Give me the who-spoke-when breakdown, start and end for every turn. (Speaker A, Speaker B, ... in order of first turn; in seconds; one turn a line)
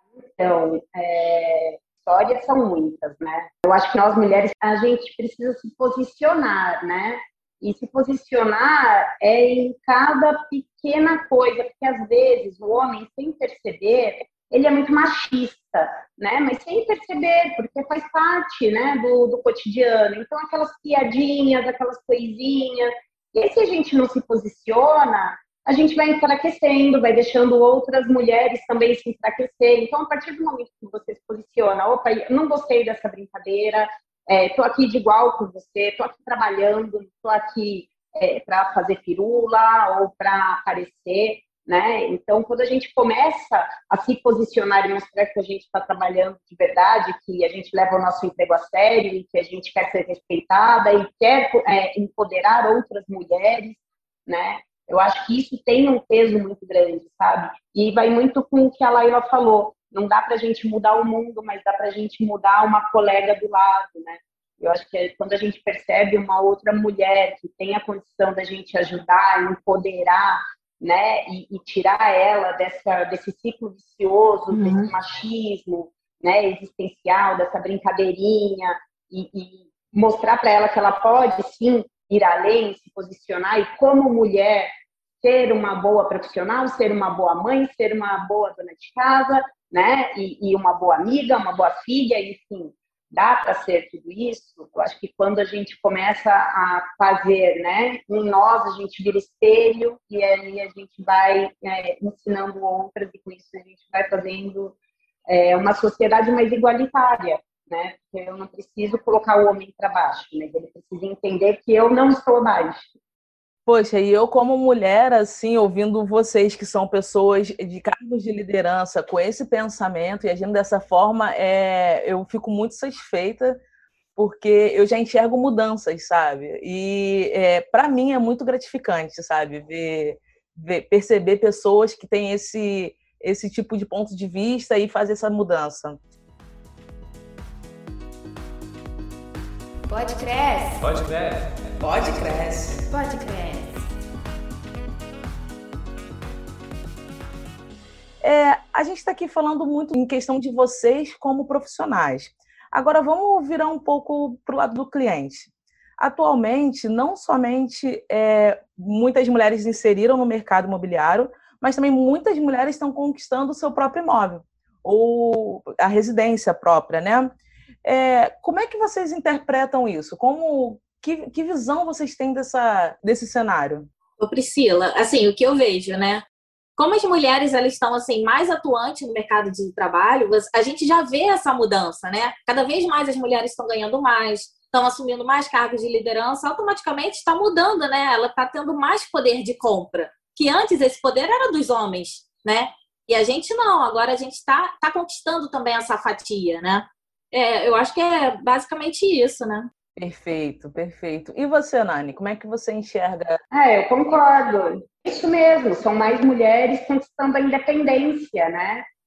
Speaker A: 0.4-84.7
Speaker B: 74.5-74.9
Speaker A: 85.2-104.8
Speaker A: 105.3-112.9
Speaker C: 113.7-123.6
Speaker C: 124.2-136.0
Speaker D: 139.9-141.1
Speaker C: 141.8-142.9
Speaker D: 142.9-143.9
Speaker C: 148.2-167.3
Speaker C: 167.8-173.9
Speaker B: 174.2-176.2
Speaker B: 176.8-199.7
Speaker C: 199.9-203.4
Speaker A: 203.5-208.8